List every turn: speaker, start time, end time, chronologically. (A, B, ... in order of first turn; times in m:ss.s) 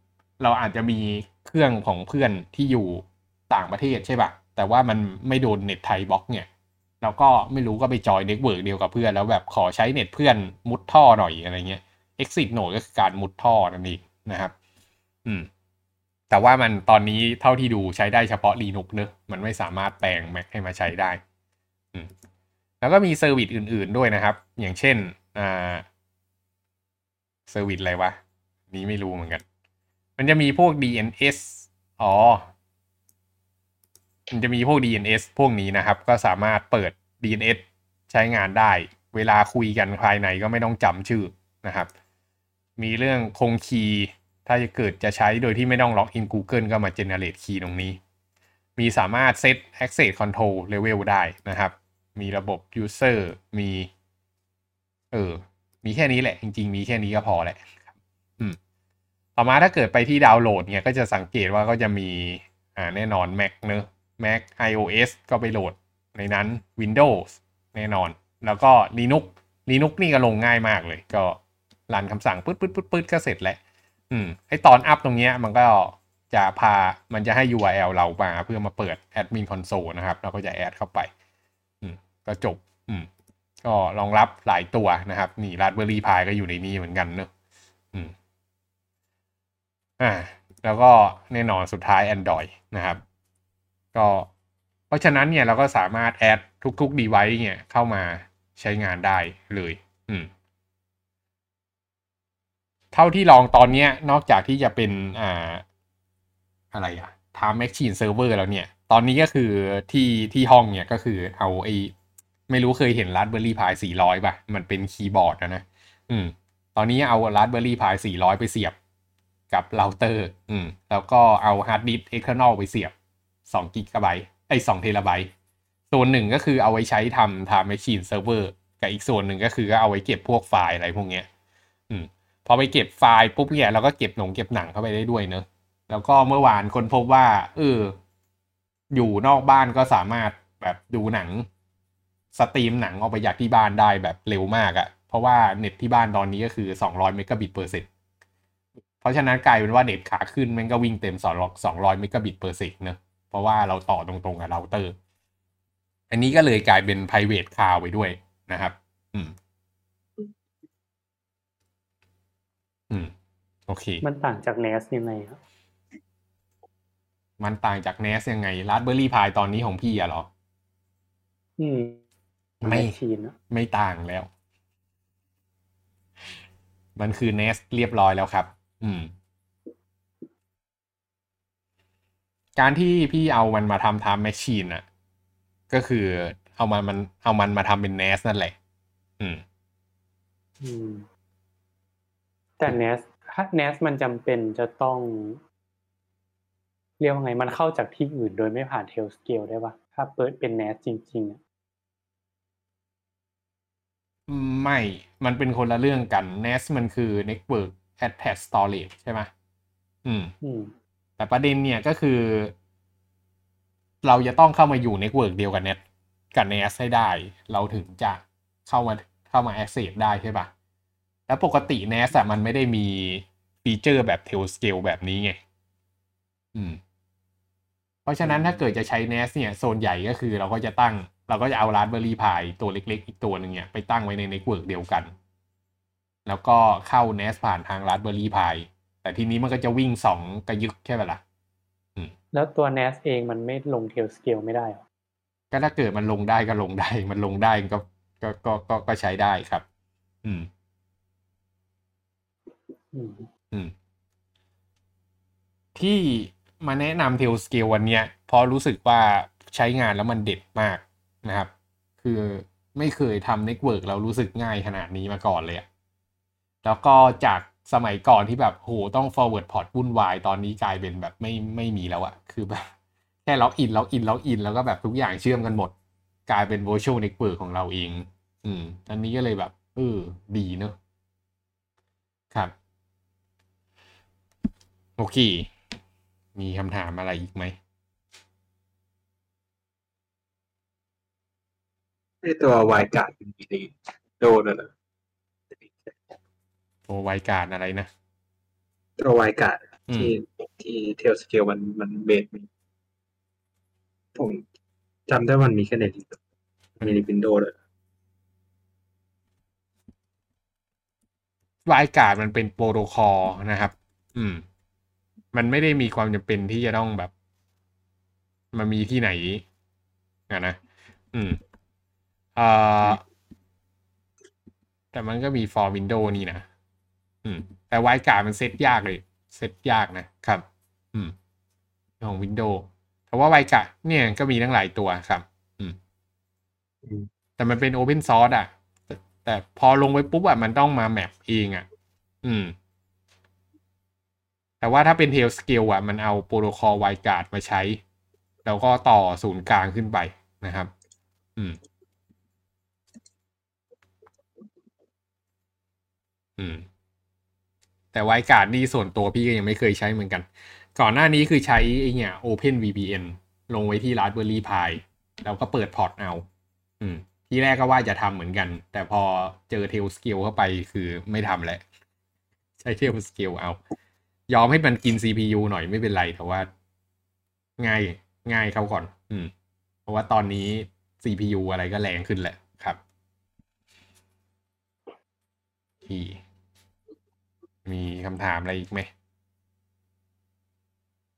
0:00.4-0:06.5 A
0:07.0-0:14.5 A
0:16.3-0:21.2 A
0:22.8-0:25.8 A
0:27.5-0:28.2 A
0:28.7-0:29.4 A
0:30.2-0:32.5 A
0:34.3-0:41.9 A
0:42.8-0:48.0 A
0:48.8-0:53.9 A
0:55.1-0:57.9 A
0:59.4-1:13.6 A
1:14.1-1:21.1 A
1:21.8-1:23.1 A
1:23.6-1:27.3 A
1:30.0-1:33.0 A
1:33.9-1:34.3 A
1:34.9-1:40.3 A
1:42.9-1:45.6 A
1:46.7-1:51.9 A
1:52.5-1:58.8 A
1:59.5-2:02.9 A
2:03.5-2:05.3 A
2:05.9-2:11.3 A
2:11.9-2:17.9 A
2:18.9-2:21.5 A
2:22.3-2:27.9 A
2:29.0-2:35.0 A
2:36.1-2:39.3 A
2:43.7-2:44.0 A
2:44.0-2:45.4 B
2:47.4-2:50.3 A
2:51.6-2:52.0 B
2:52.6-2:52.9 A
2:52.6-2:53.4 B
2:53.5-2:54.3 A
2:57.0-2:59.1 A
3:02.6-3:04.8 A
3:05.7-3:08.6 A
3:10.6-3:11.1 B
3:12.6-3:15.4 B
3:17.0-3:21.4 B
3:24.3-3:29.3 A
3:30.0-3:30.3 A
3:30.4-3:30.7 B
3:31.2-3:32.5 A
3:34.0-3:35.8 A
3:36.3-3:40.5 A
3:41.3-3:45.4 A
3:48.0-3:55.1 A
3:48.2-3:48.6 B
3:56.2-4:01.2 A
4:02.3-4:04.8 B
4:05.5-4:09.6 A
4:10.2-4:10.5 A
4:12.9-4:13.3 B
4:15.7-4:21.5 A
4:22.0-4:25.6 A
4:26.6-4:32.7 A
4:33.2-4:35.7 A
4:36.3-4:40.7 A
4:45.0-4:45.5 A
4:46.3-4:47.6 A
4:52.2-4:54.7 C
4:55.5-4:56.0 C
4:56.9-4:57.9 A
4:59.0-5:02.5 C
4:59.9-5:00.2 A
5:04.1-5:04.4 C
5:05.1-5:06.2 C
5:06.8-5:07.5 C
5:06.8-5:07.0 A
5:11.6-5:14.4 A
5:15.3-5:17.1 A
5:18.5-5:19.4 A
5:20.3-5:20.6 A
5:21.1-5:21.4 A
5:22.4-5:23.0 A
5:24.9-5:26.4 A
5:27.2-5:31.1 A
5:32.0-5:35.8 A
5:37.4-5:41.6 A
5:42.2-5:42.5 A
5:44.6-5:47.8 A
5:48.4-5:50.7 A
5:56.4-5:56.6 A
5:57.9-6:06.2 A
6:06.8-6:11.6 A
6:12.6-6:13.6 A
6:14.3-6:16.5 A
6:17.6-6:19.3 A
6:19.8-6:22.8 A
6:25.8-6:26.2 A
6:27.6-6:28.9 A